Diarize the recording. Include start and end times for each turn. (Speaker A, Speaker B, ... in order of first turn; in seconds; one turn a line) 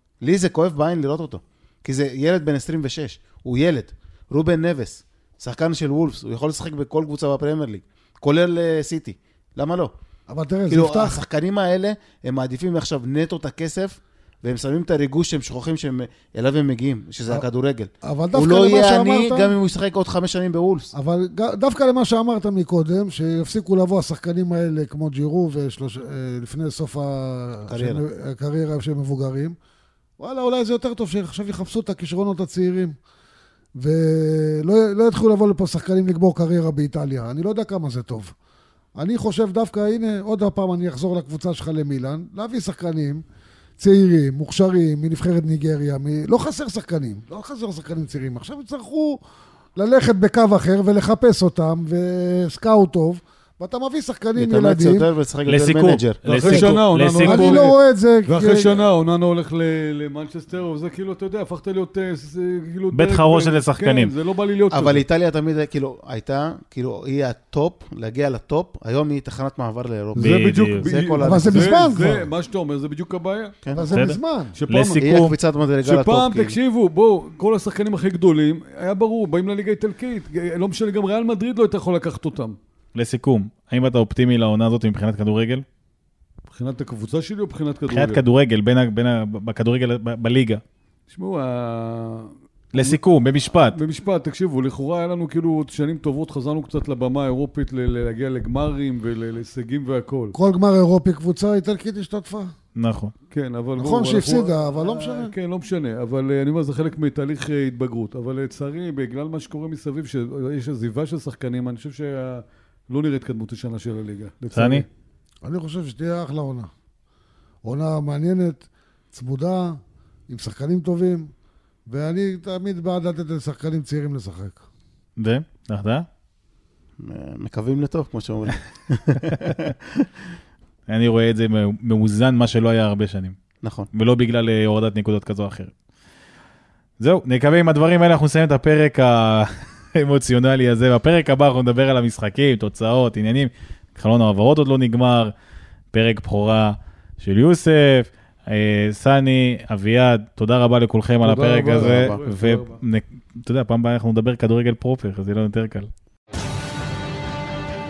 Speaker A: 0.2-9.9
Speaker B: 10.3-11.2
Speaker A: 10.7-20.9
Speaker B: 18.0-19.5
Speaker B: 20.9-29.5
Speaker A: 27.7-28.0
Speaker B: 30.2-32.9
Speaker B: 33.8-38.3
Speaker B: 39.0-43.2
Speaker B: 43.8-49.2
Speaker B: 49.8-55.1
Speaker A: 54.4-56.7
Speaker C: 55.5-57.7
Speaker D: 56.2-65.0
Speaker B: 57.2-58.9
Speaker C: 62.9-64.1
Speaker A: 64.7-71.8
Speaker D: 70.1-73.5
Speaker C: 70.2-70.9
Speaker B: 71.2-72.3
Speaker B: 73.7-74.5
Speaker C: 73.9-74.2
Speaker D: 74.5-75.0
Speaker C: 74.7-75.3
Speaker A: 75.0-76.6
Speaker D: 75.8-82.6
Speaker C: 82.9-85.7
Speaker D: 86.5-88.2
Speaker C: 87.9-90.6
Speaker D: 91.1-93.0
Speaker C: 92.7-93.8
Speaker D: 93.7-100.3
Speaker B: 100.3-102.5
Speaker C: 102.7-103.1
Speaker D: 103.3-114.9
Speaker B: 103.8-105.3
Speaker C: 114.5-114.8
Speaker B: 115.4-116.7
Speaker B: 117.6-119.8
Speaker B: 120.3-121.3
Speaker B: 121.9-124.6
Speaker C: 125.2-126.1
Speaker A: 127.0-130.1
Speaker C: 130.9-133.4
Speaker A: 133.6-133.9
Speaker C: 133.9-135.7
Speaker C: 137.0-145.3
Speaker C: 145.9-155.9
Speaker D: 151.2-152.8
Speaker A: 151.8-152.2